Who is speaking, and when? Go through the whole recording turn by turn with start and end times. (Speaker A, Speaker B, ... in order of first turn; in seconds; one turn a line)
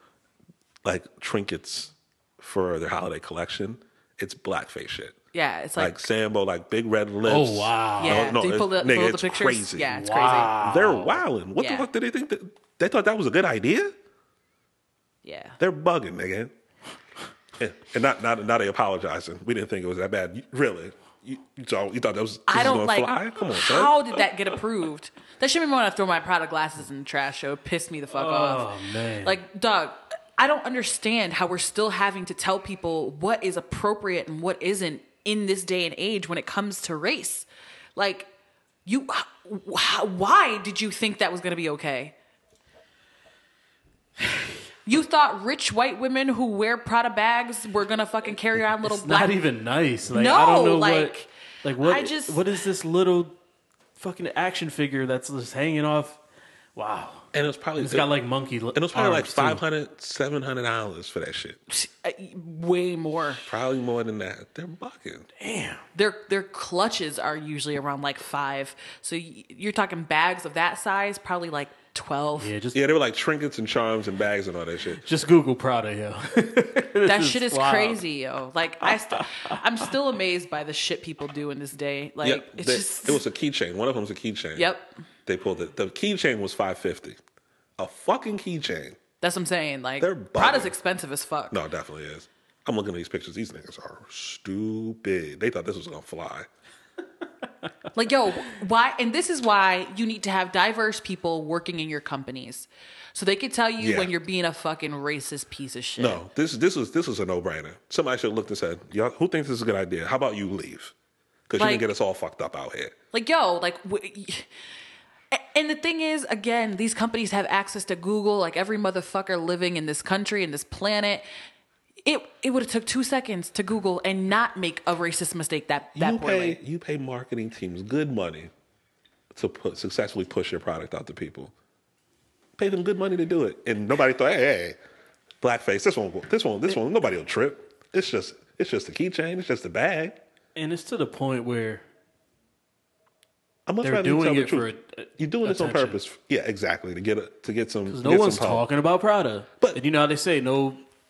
Speaker A: 0.8-5.2
Speaker B: 5.3-6.0
Speaker A: 5.8-9.9
Speaker C: 7.2-8.3
Speaker B: 8.0-10.7
Speaker C: 9.9-11.2
Speaker A: 10.6-13.9
Speaker B: 11.6-11.9
Speaker B: 15.2-15.6
Speaker A: 15.6-16.5
Speaker A: 17.6-24.0
Speaker B: 22.5-38.3
Speaker C: 28.1-29.4
Speaker B: 38.9-42.1
Speaker B: 44.8-49.4
Speaker C: 48.8-53.4
Speaker B: 50.1-51.3
Speaker B: 51.8-52.4
Speaker C: 54.0-56.2
Speaker C: 56.7-59.6
Speaker A: 57.3-58.1
Speaker A: 58.7-61.6
Speaker B: 61.7-63.4
Speaker A: 63.4-65.3
Speaker C: 65.4-65.8
Speaker B: 65.9-72.5
Speaker C: 72.4-72.8
Speaker A: 72.7-75.0
Speaker C: 75.0-78.0
Speaker B: 77.0-83.2
Speaker C: 78.8-79.6
Speaker A: 82.2-84.7
Speaker B: 84.5-84.9
Speaker A: 85.2-87.2
Speaker A: 87.8-89.0
Speaker B: 89.2-91.6
Speaker A: 90.0-90.7
Speaker A: 91.5-96.5
Speaker B: 97.9-106.2
Speaker A: 103.8-104.1
Speaker A: 106.0-110.9
Speaker A: 111.5-112.9
Speaker B: 111.6-111.8
Speaker B: 113.1-114.5
Speaker B: 115.3-121.2
Speaker B: 122.0-126.6
Speaker A: 126.0-128.5
Speaker A: 129.3-131.5
Speaker A: 132.6-134.8
Speaker A: 135.4-140.2
Speaker C: 140.5-141.8
Speaker A: 143.7-148.6
Speaker C: 143.8-146.0
Speaker C: 147.9-150.8